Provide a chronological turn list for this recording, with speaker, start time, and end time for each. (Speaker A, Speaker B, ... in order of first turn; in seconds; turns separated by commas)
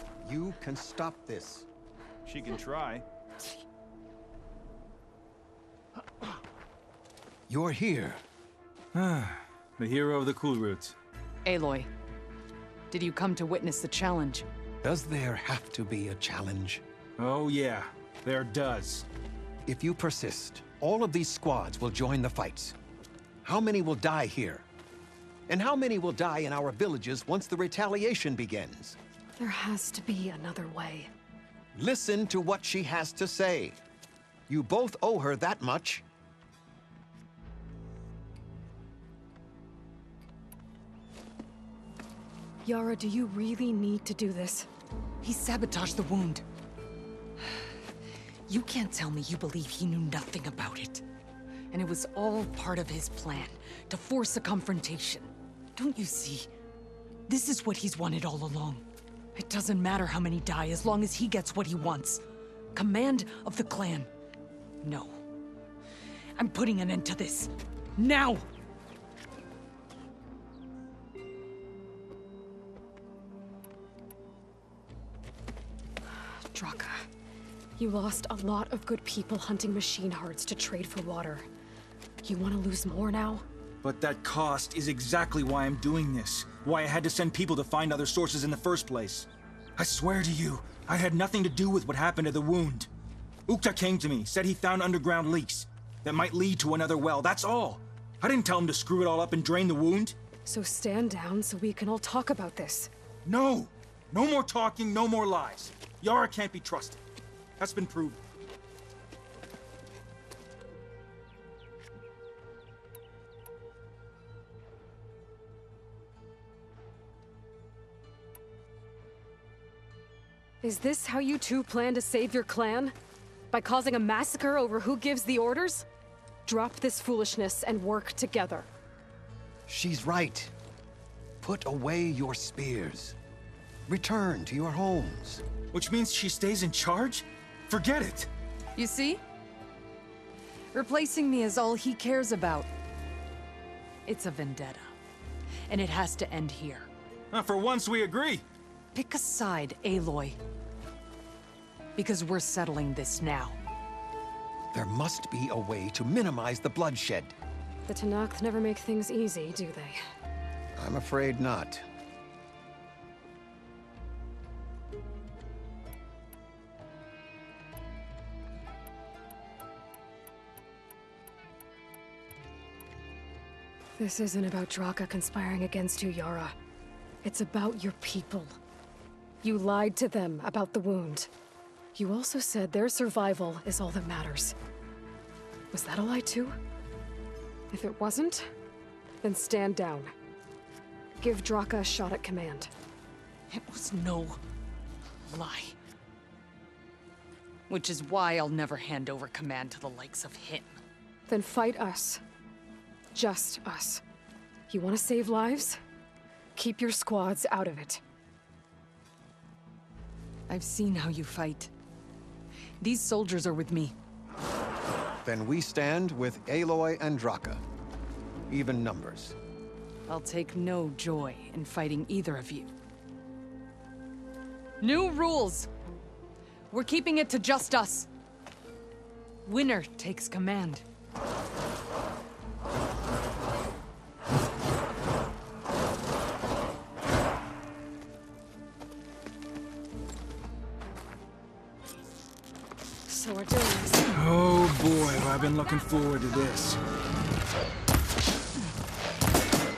Speaker A: 0.2-1.7, Speaker B: 2.2-3.0, Speaker A: 7.5-8.2, Speaker B: 8.9-10.9, Speaker C: 11.4-11.9, Speaker C: 12.9-14.4, Speaker A: 14.8-16.8, Speaker B: 17.2-19.1, Speaker A: 19.6-22.7, Speaker A: 23.4-24.6, Speaker A: 25.5-29.0, Speaker D: 29.4-31.1, Speaker A: 31.7-33.8, Speaker A: 34.5-36.0, Speaker D: 42.6-44.7, Speaker C: 45.2-46.4, Speaker C: 48.5-51.0, Speaker C: 51.7-56.5, Speaker C: 57.3-58.8, Speaker C: 59.4-62.2, Speaker C: 62.7-64.1, Speaker C: 64.8-65.2, Speaker C: 66.4-68.5, Speaker D: 76.5-77.1, Speaker D: 77.8-81.5, Speaker D: 82.2-83.4, Speaker B: 83.8-92.9, Speaker B: 93.5-100.2, Speaker D: 100.4-102.9, Speaker B: 103.2-107.0, Speaker B: 107.6-108.2, Speaker D: 120.6-122.9, Speaker D: 123.5-125.8, Speaker D: 126.4-128.7, Speaker A: 129.7-130.5, Speaker A: 131.4-133.2, Speaker A: 133.9-135.4, Speaker B: 135.7-138.3, Speaker C: 138.8-139.2, Speaker C: 140.7-142.7, Speaker C: 144.1-144.9, Speaker C: 145.7-146.9, Speaker B: 147.3-148.4, Speaker C: 148.9-150.4, Speaker C: 151.9-153.6, Speaker A: 154.7-157.3, Speaker D: 157.9-160.0, Speaker A: 160.8-161.8, Speaker D: 173.9-176.5, Speaker D: 177.2-178.6, Speaker D: 179.4-181.3, Speaker D: 181.9-184.5, Speaker D: 185.7-186.6, Speaker D: 187.7-188.5, Speaker D: 189.2-190.1, Speaker D: 191.2-192.7, Speaker C: 193.5-194.4, Speaker C: 195.2-195.8, Speaker C: 197.7-200.8, Speaker D: 201.3-202.2, Speaker D: 203.1-204.0, Speaker D: 204.7-205.8, Speaker D: 206.6-208.0, Speaker C: 210.5-211.7, Speaker C: 212.8-213.9, Speaker A: 215.2-217.6, Speaker A: 218.5-219.3, Speaker C: 220.1-222.7, Speaker C: 224.8-225.7, Speaker C: 226.7-228.1, Speaker C: 229.4-230.8, Speaker D: 243.1-244.2, Speaker B: 244.1-246.8